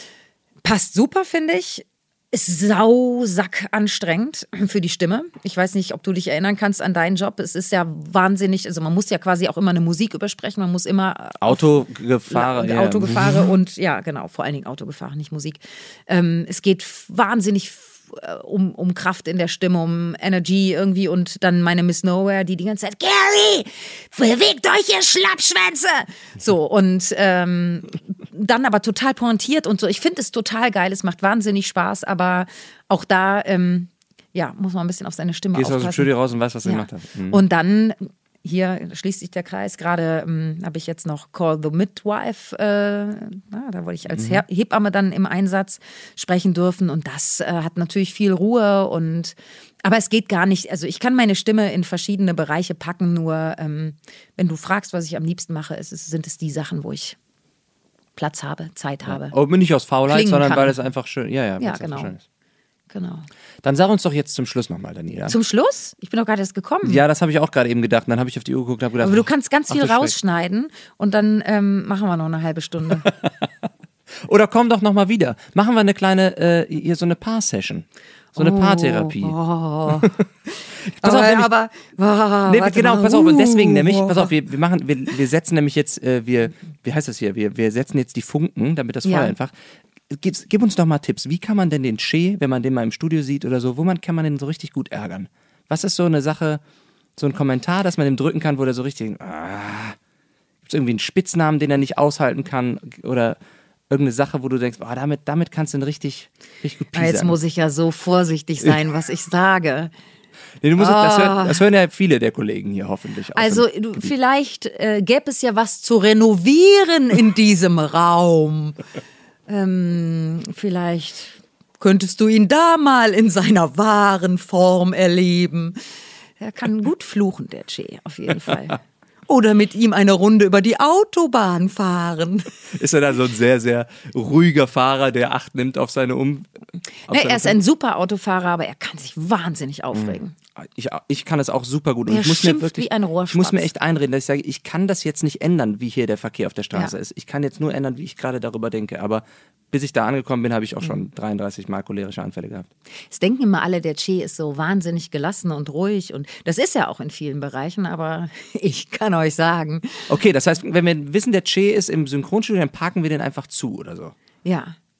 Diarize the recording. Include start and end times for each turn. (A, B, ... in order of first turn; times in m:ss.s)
0:00.6-0:36.1 A
0:11.4-0:13.5 B
0:35.5-0:37.4 B
0:36.6-0:57.2 A
0:44.1-0:44.4 B
0:58.2-0:59.4 A
0:59.0-1:02.2 B
1:00.1-1:00.8 A
1:01.6-1:02.2 A
1:02.9-1:03.3 A
1:03.6-1:05.4 B
1:05.3-1:07.0 A
1:06.8-1:10.1 B
1:09.0-1:13.1 A
1:13.0-1:13.3 B
1:14.2-1:17.8 B
1:18.3-1:24.3 A
1:18.4-1:20.2 B
1:20.8-1:21.5 B
1:22.5-1:29.5 B
1:29.0-1:29.3 A
1:30.1-1:36.6 B
1:37.2-1:40.0 B
1:40.6-1:43.4 B
1:43.9-1:47.4 B
1:46.9-1:49.9 A
1:50.6-1:54.1 B
1:50.8-1:51.6 A
1:53.3-1:58.8 A
1:59.5-2:05.8 A
2:06.4-2:12.5 A
2:12.7-2:16.5 B
2:17.1-2:17.6 B
2:17.1-2:20.3 A
2:19.9-2:32.7 B
2:22.1-2:23.7 A
2:33.1-2:40.1 A
2:40.1-2:44.1 B
2:44.4-2:44.7 A